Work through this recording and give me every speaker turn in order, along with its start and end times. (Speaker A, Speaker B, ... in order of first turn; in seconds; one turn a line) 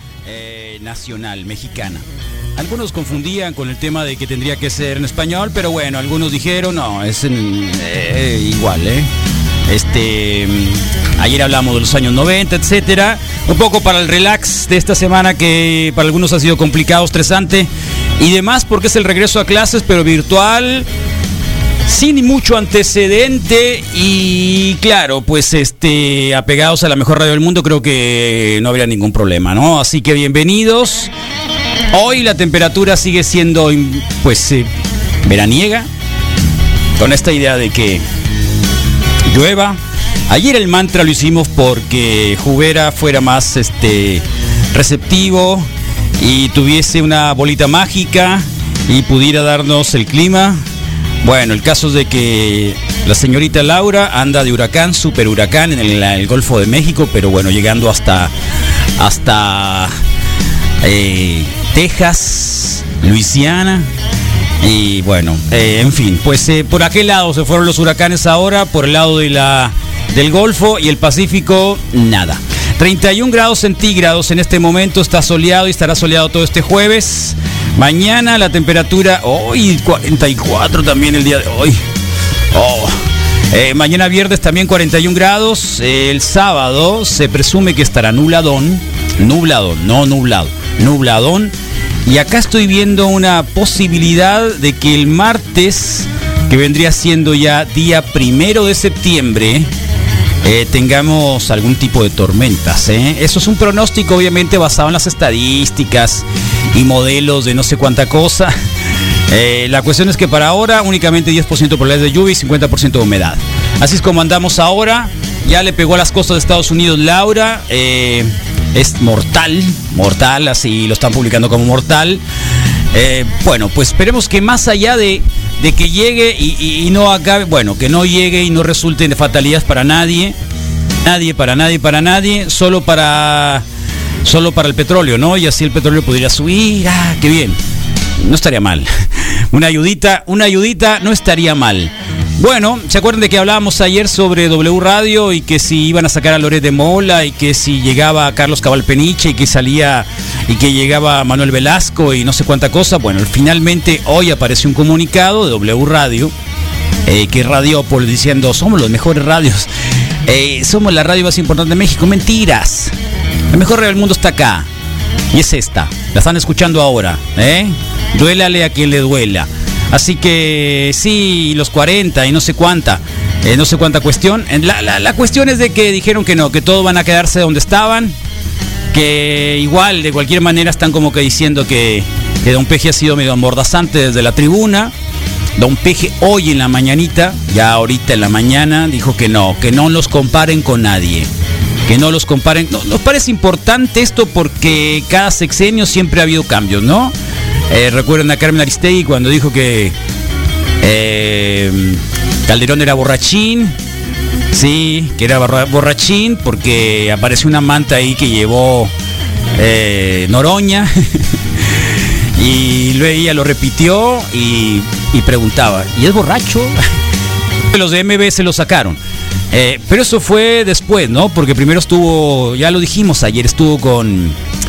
Speaker A: 0.2-9.1
Speaker A: 9.7-20.9
Speaker A: 21.9-31.1
Speaker A: 31.9-34.7
Speaker A: 35.2-35.9
Speaker A: 37.0-38.0
Speaker A: 39.3-39.8
Speaker A: 40.3-45.7
Speaker A: 46.2-50.6
Speaker A: 51.2-58.3
Speaker A: 59.0-59.9
Speaker A: 60.8-63.9
Speaker A: 64.6-81.8
Speaker A: 82.5-83.0
Speaker A: 83.5-91.5
Speaker A: 92.1-99.7
Speaker A: 100.4-108.5
Speaker A: 109.3-122.2
Speaker A: 122.9-130.4
Speaker A: 131.0-133.7
Speaker A: 134.2-137.6
Speaker A: 138.2-156.3
Speaker A: 157.1-159.7
Speaker A: 160.3-162.9
Speaker A: 163.5-164.7
Speaker A: 165.3-178.2
Speaker A: 178.9-184.9
Speaker A: 185.6-191.3
Speaker A: 191.9-197.1
Speaker A: 197.7-199.9
Speaker A: 200.8-203.8
Speaker A: 204.5-208.9
Speaker A: 209.6-210.9
Speaker A: 211.8-216.8
Speaker A: 217.7-219.0
Speaker A: 219.5-224.4